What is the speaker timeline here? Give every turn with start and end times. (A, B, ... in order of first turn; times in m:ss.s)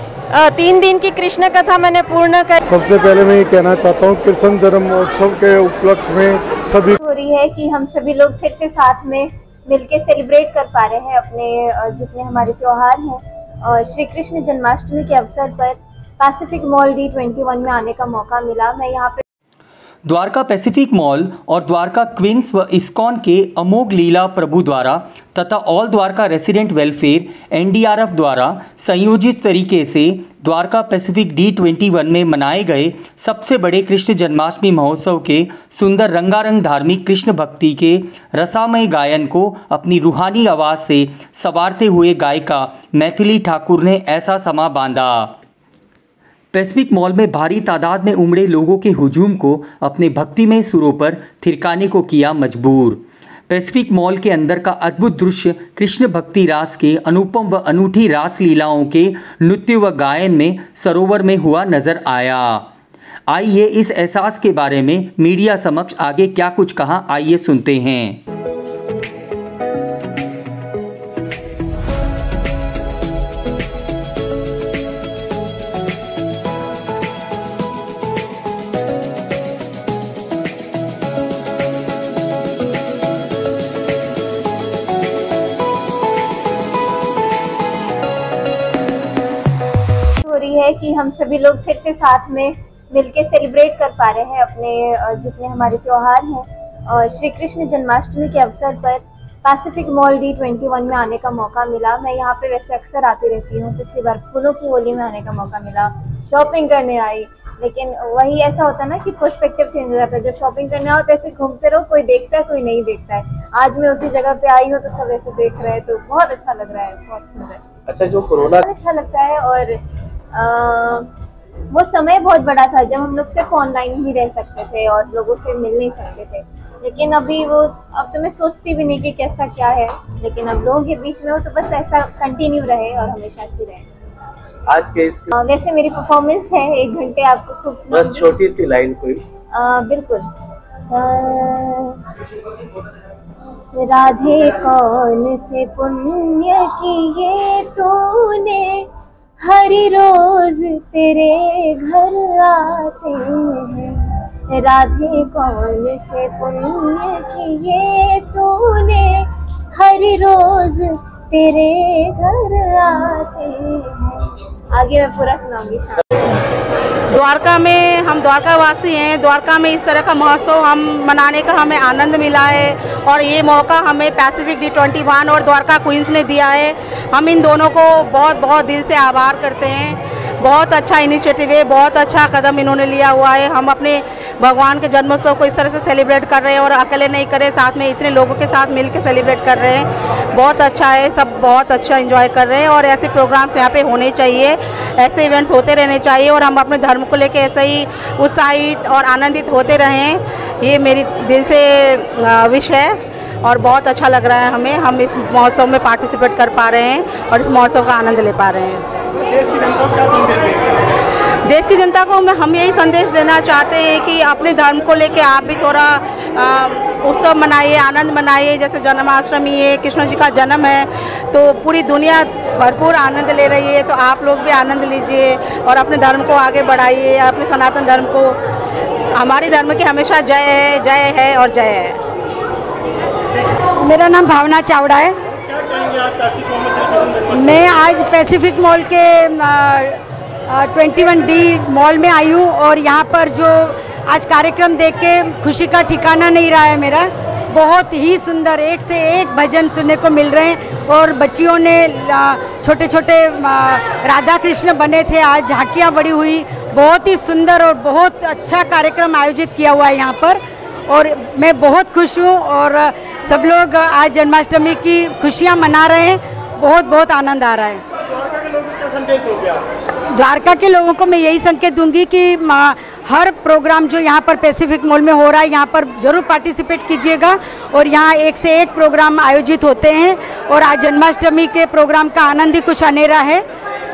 0:00.3-0:02.6 A
0:02.6-0:07.0 B
0:07.0-0:19.2 C
0:20.0-0:45.4 D
0:46.5-1:02.7 D
1:03.3-1:08.2 D
1:30.2-1:57.6 C
1:57.9-1:58.6 E
1:58.6-1:59.8 C
2:00.3-2:01.1 C
2:01.7-2:13.8 C
2:14.7-2:15.3 E
2:15.4-2:18.3 C
2:17.9-2:19.2 E
2:19.5-2:20.3 C
2:20.9-2:22.0 C
2:23.8-2:28.9 C
2:29.4-2:46.0 C
2:47.1-3:28.8 F
3:29.6-3:30.6 F
3:31.5-3:48.4 F
3:49.1-3:52.0 F
3:53.8-3:55.2 G
3:57.0-4:27.8 G
4:30.1-4:43.4 G